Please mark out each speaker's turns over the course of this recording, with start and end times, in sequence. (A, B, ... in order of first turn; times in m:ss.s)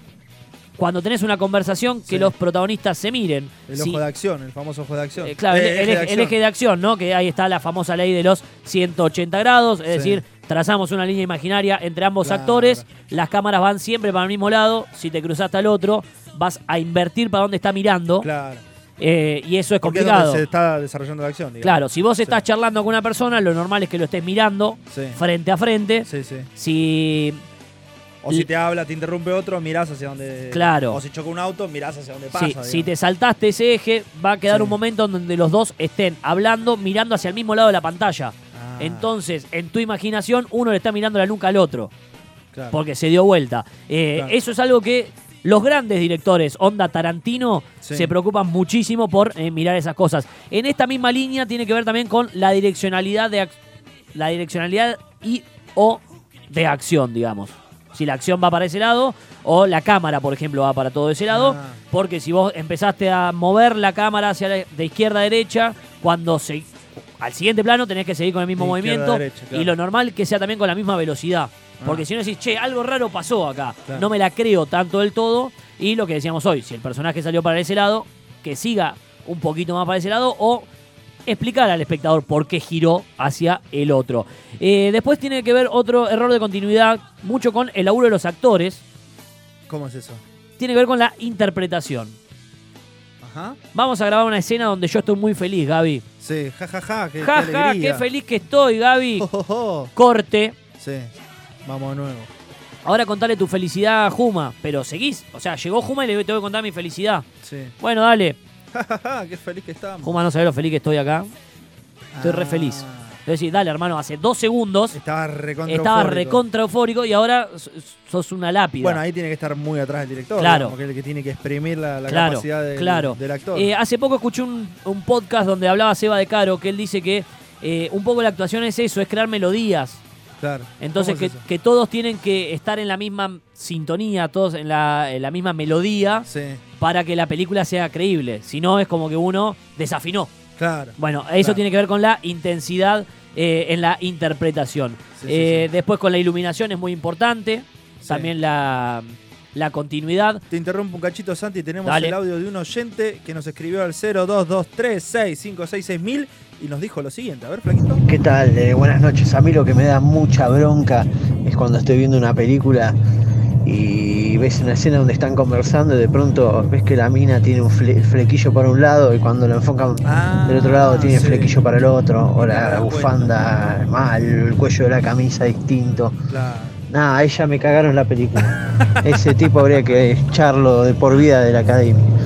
0:00.8-0:04.0 A
0:02.0-0:02.3 B
0:03.7-0:06.4 B
0:05.2-0:18.3 A
0:09.9-0:10.2 B
0:12.2-0:12.8 B
0:18.2-0:18.6 B
0:19.0-0:20.4 A
0:19.8-0:22.4 B
0:21.6-0:27.4 A
0:24.9-0:25.2 B
0:26.0-0:26.5 B
0:28.2-0:32.9 B
0:30.5-0:31.0 A
0:32.3-0:41.9 A
0:34.5-0:34.8 B
0:38.5-0:39.1 B
0:42.5-0:42.8 B
0:42.7-0:53.6 A
0:47.8-0:48.1 B
0:54.1-1:20.7 A
1:01.3-1:01.8 B
1:08.6-1:09.7 B
1:11.8-1:12.0 B
1:21.2-1:28.8 A
1:29.7-1:30.2 B
1:30.6-1:32.2 A
1:33.2-1:33.6 B
1:33.7-1:36.0 A
1:36.2-1:38.0 B
1:37.2-1:39.3 A
1:39.2-1:39.9 B
1:39.9-1:40.5 A
1:40.8-1:41.1 B
1:41.6-1:42.3 B
1:42.8-1:47.2 A
1:47.4-1:47.7 B
1:47.8-1:48.4 A
1:48.7-1:50.1 B
1:50.0-1:51.3 A
1:52.1-1:53.2 B
1:52.2-1:55.0 A
1:54.9-1:56.4 B
1:55.7-1:59.0 A
1:58.8-2:03.7 B
2:00.4-2:00.7 A
2:02.1-2:10.0 A
2:10.4-2:11.4 B
2:10.8-2:16.3 A
2:16.2-2:16.6 B
2:16.8-2:20.3 A
2:20.6-2:21.6 B
2:21.0-2:30.4 A
2:25.2-2:25.7 B
2:28.0-2:28.3 B
2:30.5-2:38.0 B
2:31.8-2:32.1 A
2:38.0-2:42.9 C
2:43.6-2:56.1 C
2:50.0-2:51.6 B
2:52.4-2:53.3 B
2:56.3-2:56.8 B
2:56.9-3:02.0 C
2:58.5-3:00.0 B